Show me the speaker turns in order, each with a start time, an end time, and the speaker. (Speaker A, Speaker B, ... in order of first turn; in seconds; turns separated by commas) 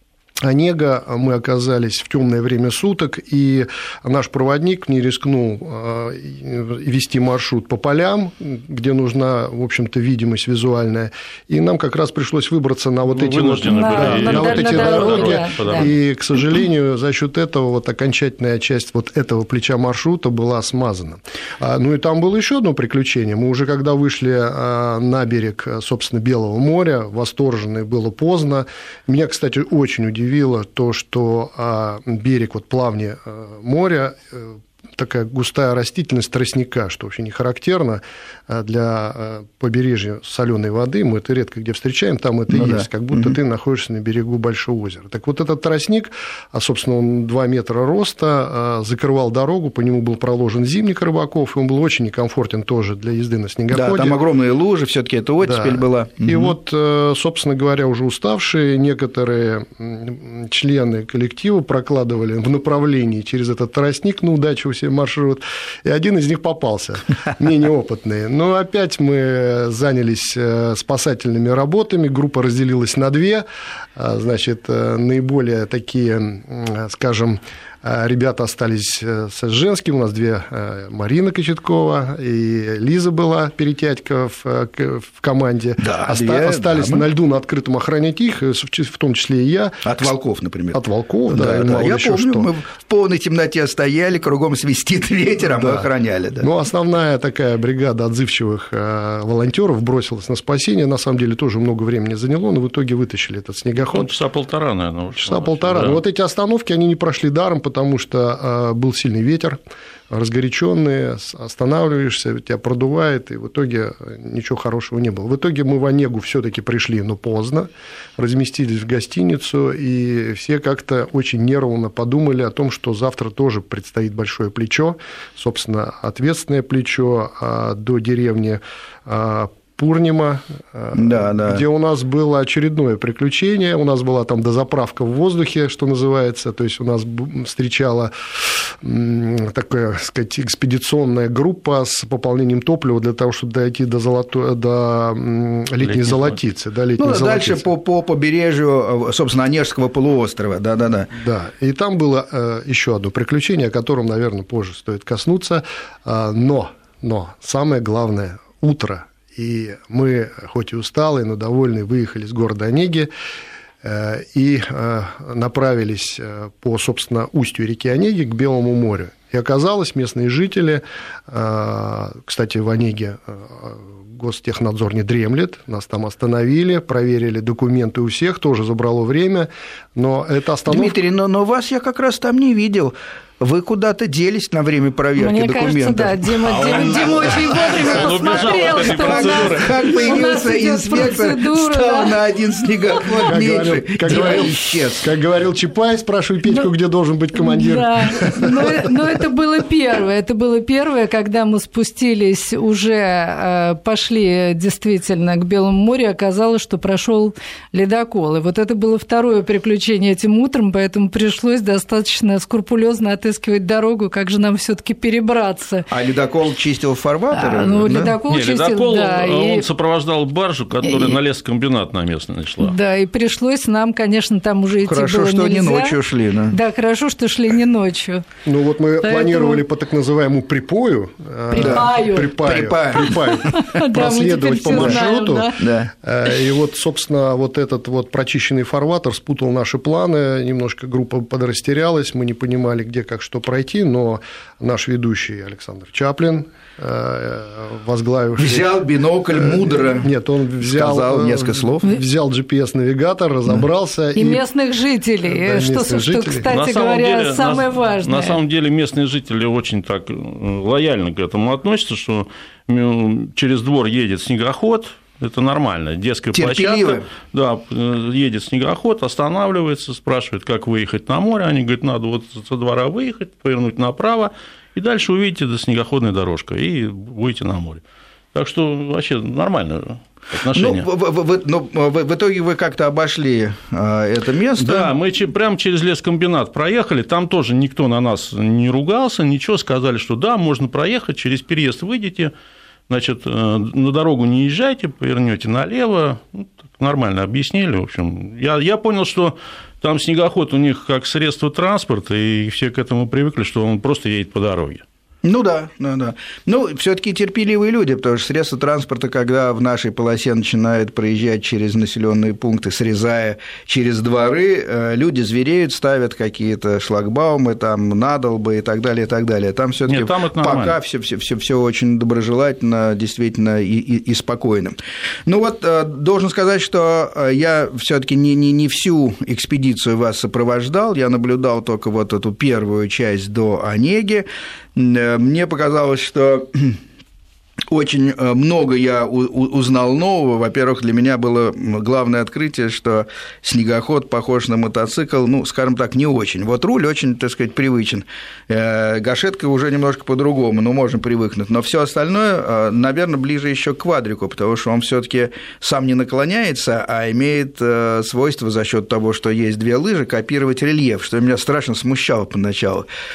Speaker A: 0.4-54.2, Speaker B: 13.1-15.9, Speaker C: 13.7-15.9, Speaker D: 42.5-43.4, Speaker D: 53.7-56.5, Speaker A: 55.4-73.4, Speaker A: 74.0-90.1, Speaker D: 85.8-87.0, Speaker D: 89.8-96.5, Speaker A: 90.7-92.5, Speaker A: 95.5-95.9, Speaker A: 96.4-104.1, Speaker B: 103.8-106.0, Speaker A: 105.2-109.6, Speaker A: 110.1-147.7, Speaker D: 130.9-131.6, Speaker B: 145.8-146.4, Speaker D: 147.0-151.1, Speaker A: 151.1-163.1, Speaker A: 163.8-180.9, Speaker D: 180.7-195.1, Speaker C: 185.2-192.2, Speaker B: 186.4-189.9, Speaker A: 193.3-198.9, Speaker C: 194.1-194.5, Speaker C: 197.3-215.9, Speaker D: 215.9-218.2, Speaker C: 217.3-219.7, Speaker B: 218.3-222.8, Speaker C: 220.8-221.2, Speaker C: 222.6-226.0, Speaker D: 224.9-226.6, Speaker C: 226.5-228.3, Speaker A: 228.5-248.7, Speaker C: 229.0-229.6, Speaker C: 231.5-232.4, Speaker D: 231.6-233.6, Speaker C: 233.5-235.7, Speaker D: 234.7-235.0, Speaker D: 235.6-235.9, Speaker D: 248.4-250.1, Speaker A: 249.3-254.4, Speaker D: 250.6-251.9, Speaker C: 254.2-258.4, Speaker A: 255.2-256.5, Speaker B: 256.5-277.8, Speaker D: 266.3-267.0, Speaker B: 278.3-280.9, Speaker D: 280.5-284.9, Speaker B: 284.6-292.3, Speaker B: 292.9-304.8, Speaker D: 305.2-336.8, Speaker B: 319.9-320.8, Speaker D: 337.7-362.9